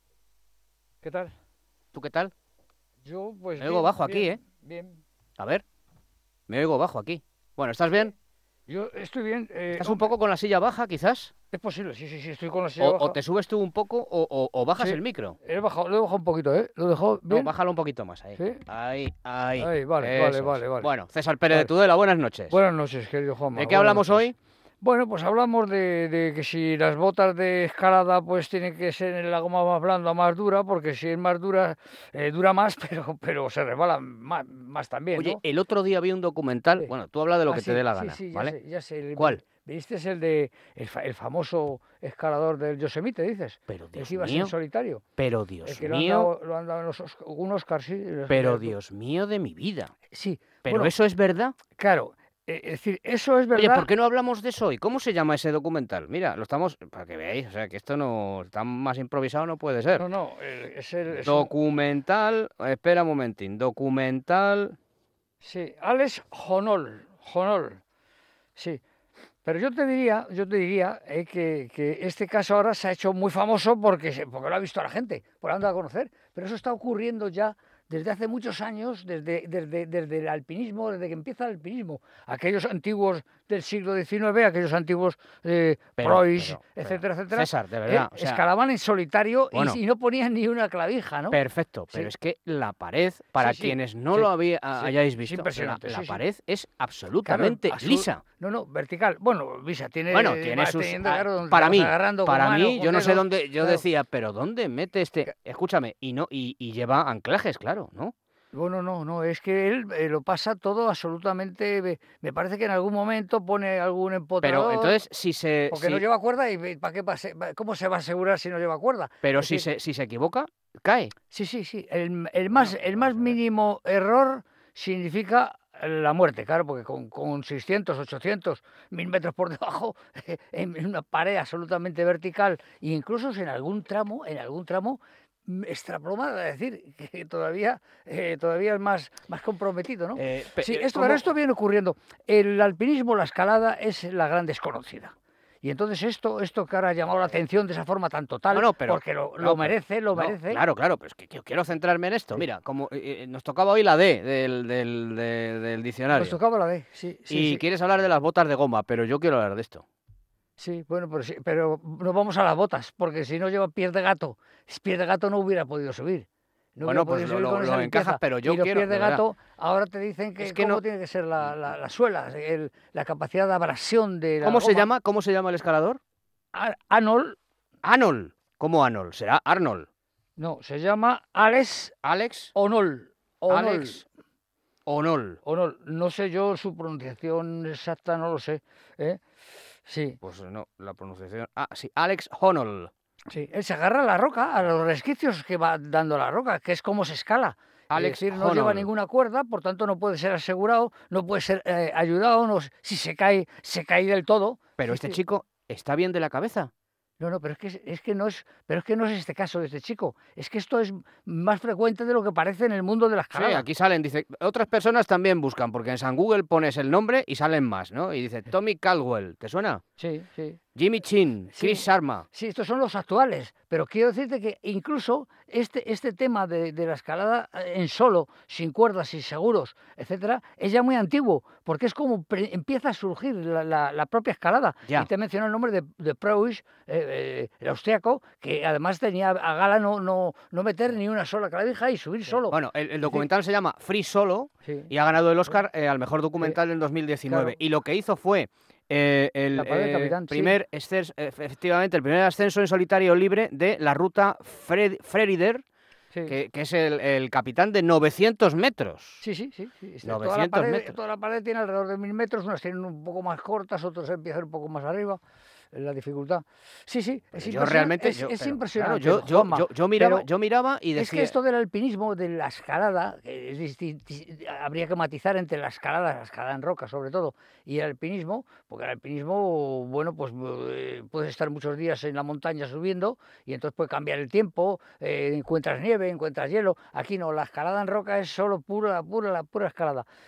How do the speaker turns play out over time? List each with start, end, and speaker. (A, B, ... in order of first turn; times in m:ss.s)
0:01.0-0:01.3 A
0:01.9-0:02.3 B
0:03.0-0:05.0 A
0:03.6-0:04.4 B
0:05.4-0:05.6 B
0:06.5-0:08.1 B
0:08.7-0:10.1 A
0:09.8-0:11.3 B
0:11.5-0:13.2 A
0:12.8-0:15.4 B
0:14.8-0:17.5 A
0:17.3-0:22.6 B
0:18.4-0:18.6 A
0:19.6-0:20.9 A
0:22.5-0:24.3 A
0:23.6-0:24.4 B
0:24.8-0:35.4 A
0:35.2-0:38.6 B
0:37.5-0:45.0 A
0:43.7-0:44.5 B
0:45.2-0:46.3 B
0:45.6-0:48.7 A
0:48.3-0:49.9 B
0:50.1-0:50.9 A
0:50.6-0:51.6 B
0:51.8-0:53.9 A
0:53.5-1:00.0 B
1:00.0-1:01.5 A
1:01.2-1:04.8 B
1:05.4-1:07.8 A
1:08.6-1:08.8 A
1:09.4-1:31.4 A
1:26.0-1:28.4 B
1:29.5-1:29.8 B
1:31.3-1:38.2 B
1:33.4-1:36.2 A
1:37.2-1:43.8 A
1:40.1-1:48.1 B
1:48.5-1:55.0 A
1:54.4-1:56.0 B
1:55.7-1:59.7 A
1:59.2-2:01.1 B
2:01.3-2:30.6 A
2:02.5-2:03.0 B
2:20.2-2:21.3 B
2:28.5-2:36.4 B
2:36.1-2:37.6 A
2:37.3-2:39.8 B
2:40.6-2:54.9 A
2:46.8-2:49.2 B
2:50.4-2:50.8 B
2:54.4-2:56.0 B
2:56.5-2:57.4 A
2:57.8-2:59.9 B
3:00.4-3:01.9 A
3:02.0-3:02.5 B
3:02.6-3:04.1 A
3:03.5-3:04.0 B
3:04.9-3:05.4 B
3:05.4-3:09.2 A
3:09.9-3:10.2 A
3:10.2-3:12.9 B
3:13.3-3:25.2 A
3:17.9-3:18.9 B
3:24.8-3:26.7 B
3:27.2-3:33.7 A
3:33.3-3:39.8 B
3:40.0-3:40.6 A
3:40.8-3:42.2 B
3:41.5-4:03.3 A
4:02.5-4:15.6 B
4:04.6-4:04.9 A
4:07.3-4:07.6 A
4:09.6-4:10.6 A
4:16.3-4:19.2 B
4:19.2-4:25.2 A
4:20.0-4:21.0 B
4:25.7-4:30.3 A
4:27.3-4:31.4 B
4:31.0-4:50.1 A